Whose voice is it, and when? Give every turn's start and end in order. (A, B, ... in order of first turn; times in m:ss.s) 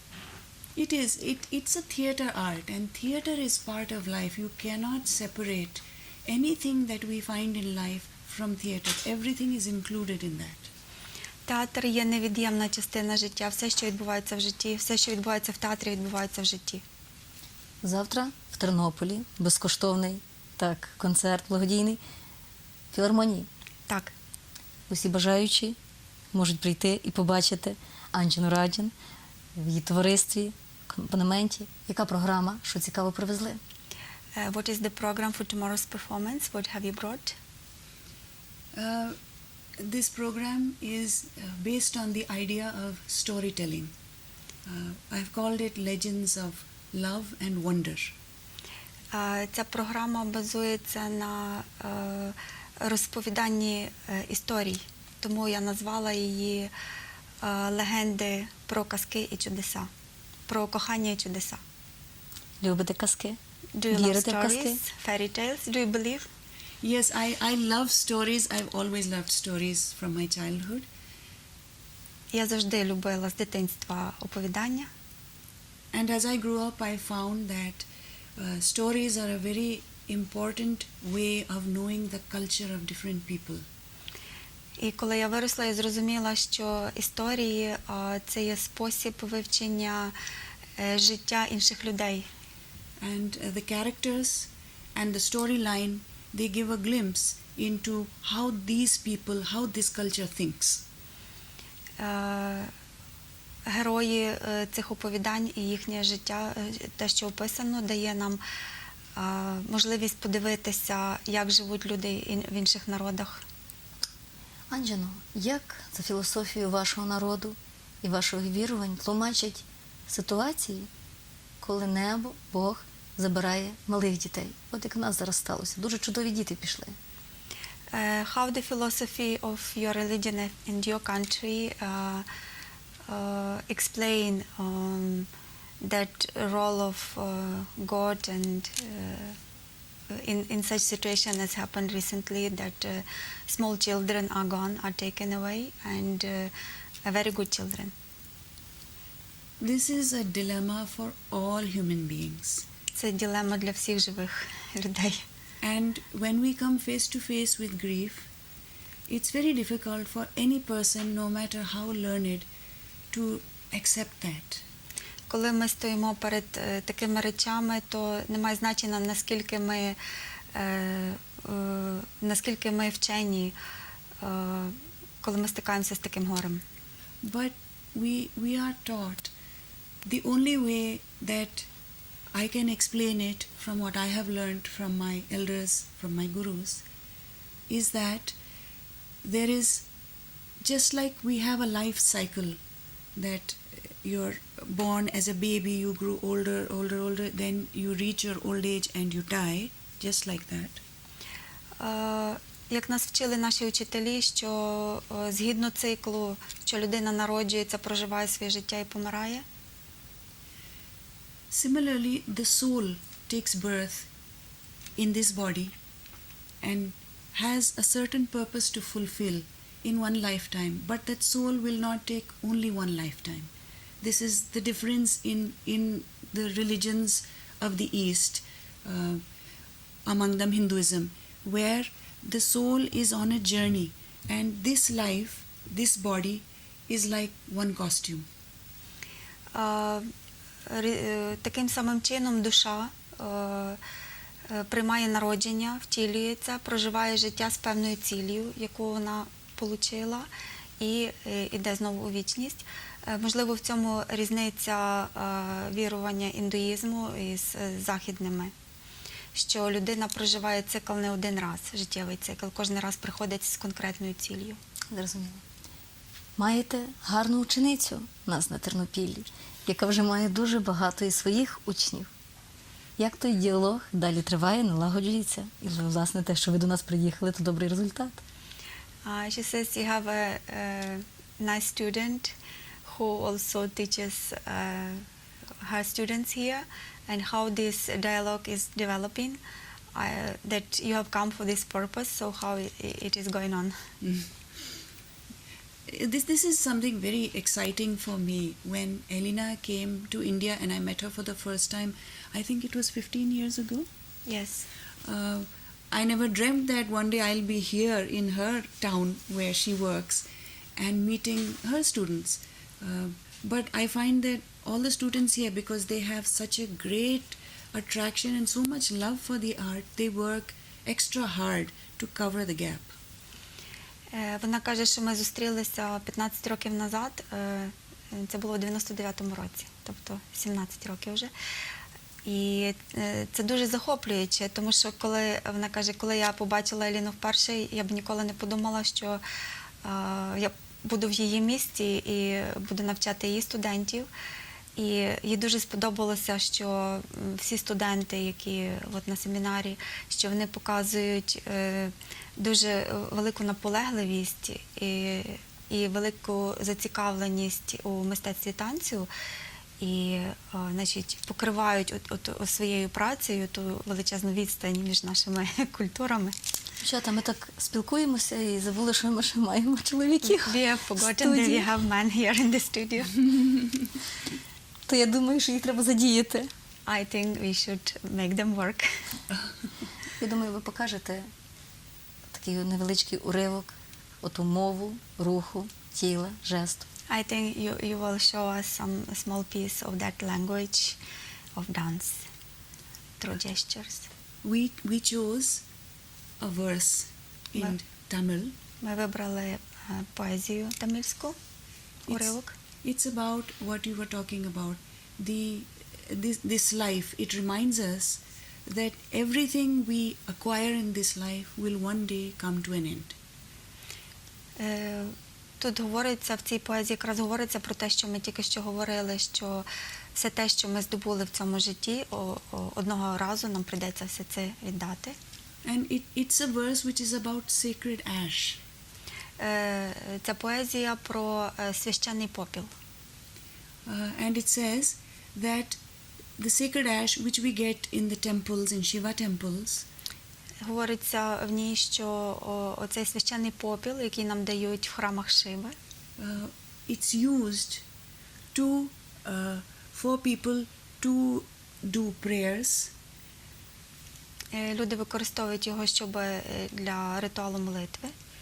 0:00.8-0:10.7 A
0:11.5-0:16.8 B
0:17.8-0:22.0 C
0:22.9-0:23.5 C
0:23.9-0:24.1 B
0:24.9-0:25.8 C
0:26.3-0:28.9 C
0:29.6-0:33.6 C
0:34.4-0:37.4 B
0:38.7-0:39.2 A
0:39.8-0:43.9 A
0:44.7-0:48.2 A
0:49.1-0:56.7 B
0:57.4-0:59.9 B
1:00.5-1:01.6 B
1:02.6-1:03.4 C
1:03.8-1:06.3 B
1:03.9-1:04.8 C
1:06.8-1:10.9 A
1:12.3-1:14.9 B
1:15.9-1:17.9 A
1:18.4-1:23.6 A
1:24.8-1:30.2 B
1:30.8-1:32.3 B
1:33.0-1:40.8 A
1:42.0-1:42.7 B
1:43.7-1:48.4 B
1:49.2-1:53.4 B
1:54.7-2:00.9 C
2:01.6-2:07.0 C
2:07.9-2:12.3 B
2:13.1-2:15.3 B
2:15.8-2:19.4 B
2:20.1-2:26.5 B
2:27.1-2:27.9 B
2:29.6-2:32.6 A
2:32.9-2:35.2 B
2:35.6-2:38.3 A
2:39.1-2:42.5 A
2:43.1-2:44.6 A
2:45.3-2:50.0 B
2:50.5-2:53.6 B
2:54.2-2:56.6 B
2:57.2-2:59.3 A
3:00.0-3:01.7 A
3:02.3-3:06.8 A
3:07.7-3:08.4 A
3:09.2-3:09.8 A
3:10.6-3:12.6 A
3:13.2-3:20.8 A
3:21.8-3:29.4 B
3:31.5-3:34.1 A
3:35.0-3:35.7 A
3:36.6-3:43.5 A
3:44.0-3:49.2 A
3:50.1-3:58.3 A
3:59.5-4:00.1 B
4:00.7-4:03.8 B
4:04.5-4:10.3 B
4:10.8-4:18.5 B
4:19.3-4:24.6 B
4:24.9-4:25.4 C
4:26.4-4:32.1 C
4:33.0-4:38.2 C
4:39.0-4:45.0 B
4:45.6-4:49.4 B
4:50.0-4:53.8 B
4:54.0-4:54.3 A
4:55.9-5:03.9 A
5:04.3-5:04.7 B
5:05.0-5:10.2 A
5:10.8-5:22.9 A
5:24.1-5:31.3 B
5:32.3-5:39.2 B
5:39.8-5:44.1 B
5:44.8-5:59.1 B
5:59.8-6:06.4 B
6:06.8-6:11.7 C
6:10.2-6:13.3 B
6:14.9-6:16.5 C
6:16.9-6:19.0 B
6:20.2-6:21.3 C
6:22.3-6:26.9 C
6:27.1-6:31.0 B
6:31.6-6:32.3 B
6:33.2-6:34.1 B
6:34.4-6:35.6 A
6:36.4-6:38.5 A
6:38.8-6:41.4 B
6:42.1-6:53.2 A
6:42.1-6:42.6 B
6:54.6-7:05.2 B
7:05.6-7:08.6 A
7:09.4-7:12.7 B
7:13.9-7:15.8 A
7:16.4-7:19.9 A
7:20.6-7:25.8 B
7:26.2-7:27.8 A
7:28.5-7:32.9 A
7:34.5-7:38.1 B